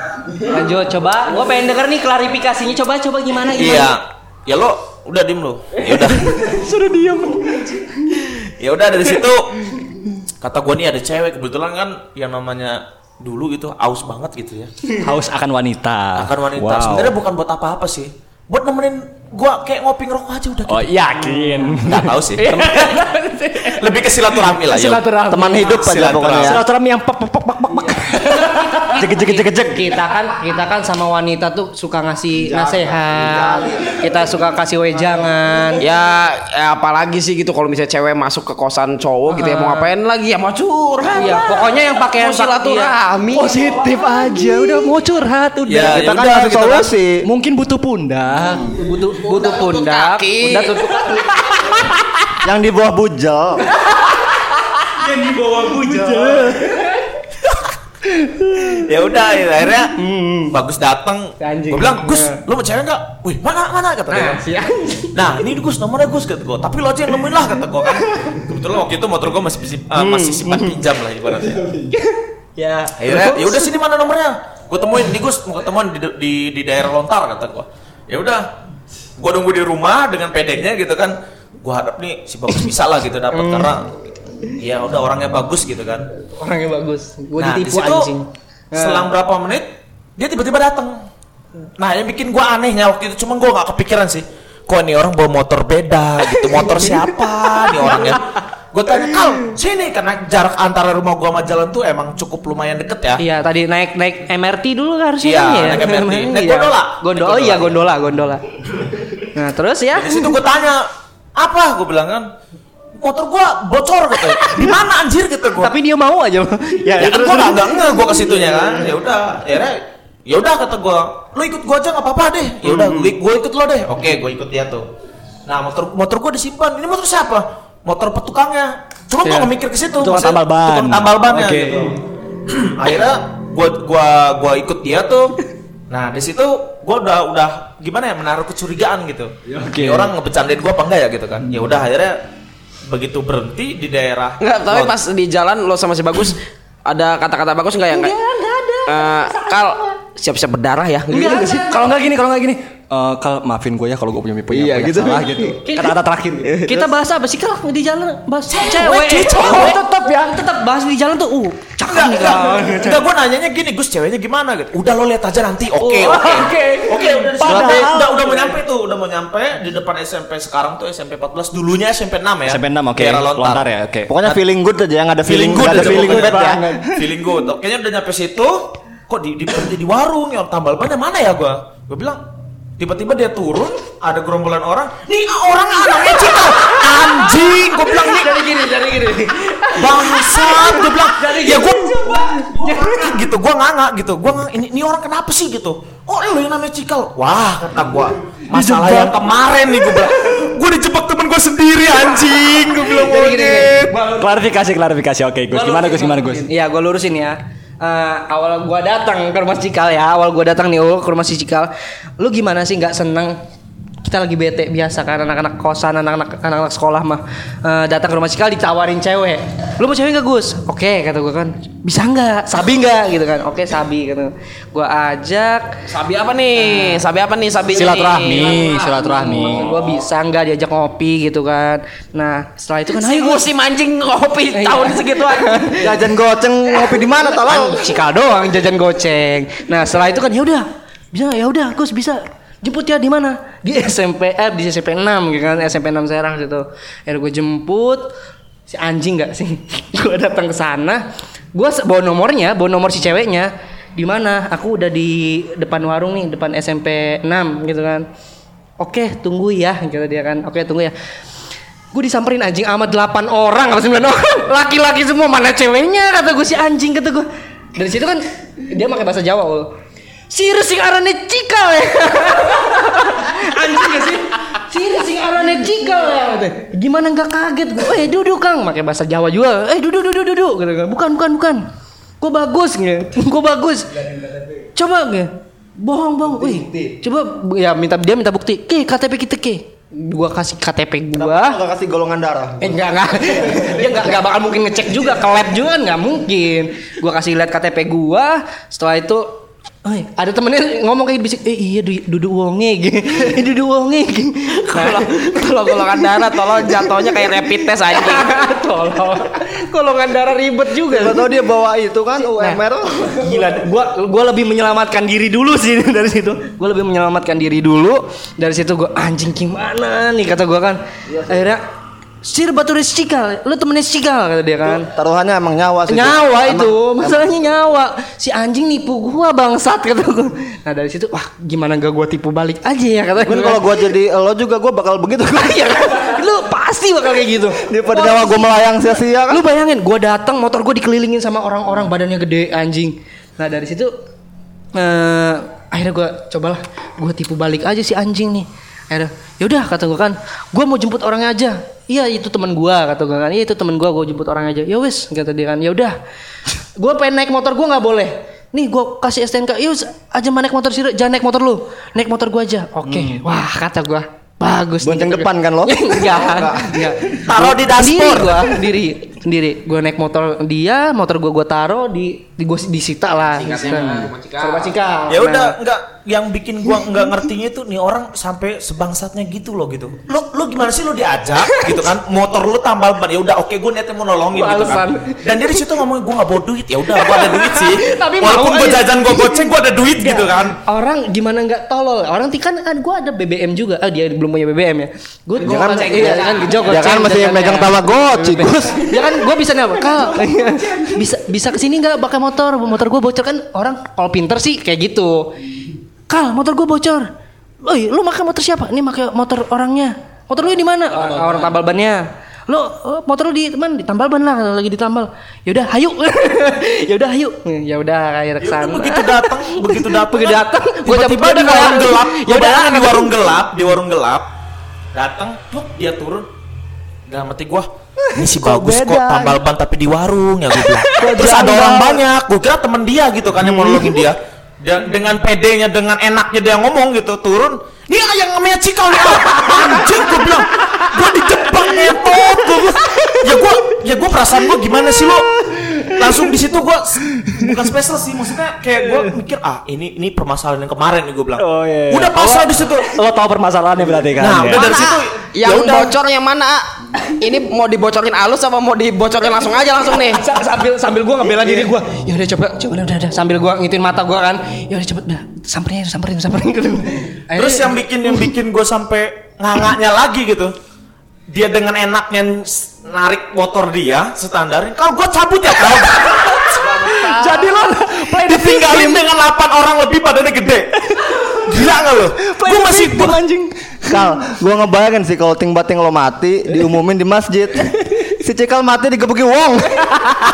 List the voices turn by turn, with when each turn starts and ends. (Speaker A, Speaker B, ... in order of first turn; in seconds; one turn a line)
Speaker A: 0.5-3.9
Speaker B: 3.5-6.3
Speaker C: 5.8-8.3
Speaker B: 8.6-9.6
Speaker B: 10.4-14.9
Speaker C: 14.9-17.1
Speaker B: 16.2-22.9
Speaker C: 20.7-25.7
Speaker B: 23.6-26.6
Speaker D: 25.3-26.6
Speaker A: 25.4-25.7
Speaker C: 26.4-29.9
Speaker A: 27.9-35.8
Speaker D: 32.4-34.1
Speaker E: 35.8-43.6
Speaker A: 39.3-39.9
Speaker A: 41.1-42.9
Speaker C: 43.3-46.1
Speaker B: 45.7-46.9
Speaker D: 45.9-47.2
Speaker C: 47.2-48.8
Speaker A: 48.7-51.8
Speaker E: 49.1-51.0
Speaker C: 51.1-52.3
Speaker D: 52.4-53.6
Speaker C: 55.0-56.9
Speaker B: 55.7-56.5
Speaker C: 58.1-58.8
Speaker B: 58.7-60.0
Speaker A: 60.0-60.5
Speaker B: 60.5-64.4
Speaker A: 61.4-62.4
Speaker A: 64.1-65.2
Speaker B: 65.1-71.6
Speaker A: 70.0-70.8
Speaker C: 71.5-72.0
Speaker A: 72.6-73.7
Speaker B: 73.0-78.5
Speaker B: 79.2-83.9
Speaker A: 83.3-83.7
Speaker B: 84.5-86.1
Speaker A: 86.4-89.1
Speaker B: 87.4-88.1
Speaker B: 88.7-91.0
Speaker B: 91.8-103.2
Speaker A: 96.5-98.1
Speaker A: 103.2-108.4
Speaker B: 105.2-107.8
Speaker A: 109.2-110.3
Speaker B: 109.9-112.3
Speaker B: 113.0-115.7
Speaker A: 114.3-114.8
Speaker A: 115.6-118.7
Speaker B: 117.0-124.8
Speaker A: 122.7-123.0
Speaker B: 125.5-135.4
Speaker C: 130.0-132.0
Speaker B: 135.9-142.2
Speaker C: 139.5-140.1
Speaker B: 142.9-144.9
Speaker E: 144.4-148.1
Speaker A: 147.9-149.8
Speaker E: 148.8-151.7
Speaker A: 151.1-151.9
Speaker C: 151.6-156.7
Speaker E: 154.5-155.6
Speaker A: 155.6-155.9
Speaker E: 156.4-156.9
Speaker A: 156.6-163.0
Speaker B: 158.5-159.8
Speaker C: 159.4-160.1
Speaker B: 161.8-173.7
Speaker A: 165.8-166.6
Speaker C: 166.0-168.5
Speaker D: 167.4-167.9
Speaker C: 172.4-174.1
Speaker D: 174.1-176.8
Speaker B: 175.2-182.2
Speaker C: 175.6-177.0
Speaker B: 182.8-188.5
Speaker A: 186.0-193.2
Speaker B: 189.7-204.1
Speaker C: 198.5-199.2
Speaker A: 202.8-204.2
Speaker C: 204.0-206.5
Speaker A: 205.5-213.4
Speaker A: 214.0-225.7
Speaker E: 225.9-230.0
Speaker A: 226.6-227.0
Speaker C: 227.7-229.7
Speaker A: 228.1-233.5
Speaker E: 232.9-235.5
Speaker A: 234.5-235.9
Speaker D: 235.8-238.0
Speaker A: 237.3-248.1
Speaker A: 248.7-258.1
Speaker A: 258.8-260.9
Speaker A: 261.9-269.7
Speaker A: 270.3-281.6
Speaker A: 282.2-283.9
Speaker D: 284.1-284.4
Speaker A: 284.7-291.6
Speaker D: 286.2-287.0
Speaker D: 291.1-294.1
Speaker A: 292.6-307.0
Speaker E: 304.7-308.3
Speaker A: 307.9-311.3
Speaker D: 310.9-313.6
Speaker A: 313.2-321.6
Speaker D: 321.1-321.4
Speaker A: 322.2-324.9
Speaker D: 324.7-327.3
Speaker A: 325.9-333.6
Speaker D: 333.2-336.1
Speaker A: 335.4-338.6
Speaker D: 337.6-339.4
Speaker A: 339.3-343.9
Speaker A: 344.7-355.9
Speaker A: 356.8-375.5
Speaker C: 362.9-363.2
Speaker D: 364.8-366.9
Speaker B: 367.2-368.5
Speaker E: 373.3-374.7
Speaker B: 375.1-390.6
Speaker A: 381.5-381.8
Speaker A: 384.3-385.3
Speaker A: 387.0-389.4
Speaker A: 390.0-405.5
Speaker D: 395.4-399.3
Speaker E: 395.4-396.8
Speaker A: 406.1-407.1
Speaker A: 407.6-423.3
Speaker C: 411.0-411.5
Speaker B: 418.4-424.3
Speaker B: 424.9-426.3
Speaker B: 427.1-452.9
Speaker A: 430.9-431.9
Speaker D: 431.2-431.5
Speaker C: 440.8-443.4
Speaker C: 445.1-446.3
Speaker C: 447.1-447.5
Speaker C: 448.8-449.1
Speaker C: 451.4-454.9
Speaker B: 454.2-455.9
Speaker E: 454.5-460.2
Speaker A: 459.9-468.3
Speaker B: 467.3-470.5
Speaker B: 471.3-476.8
Speaker C: 476.0-479.1
Speaker B: 478.0-480.7
Speaker C: 480.9-484.1
Speaker B: 481.3-483.2
Speaker D: 483.9-490.1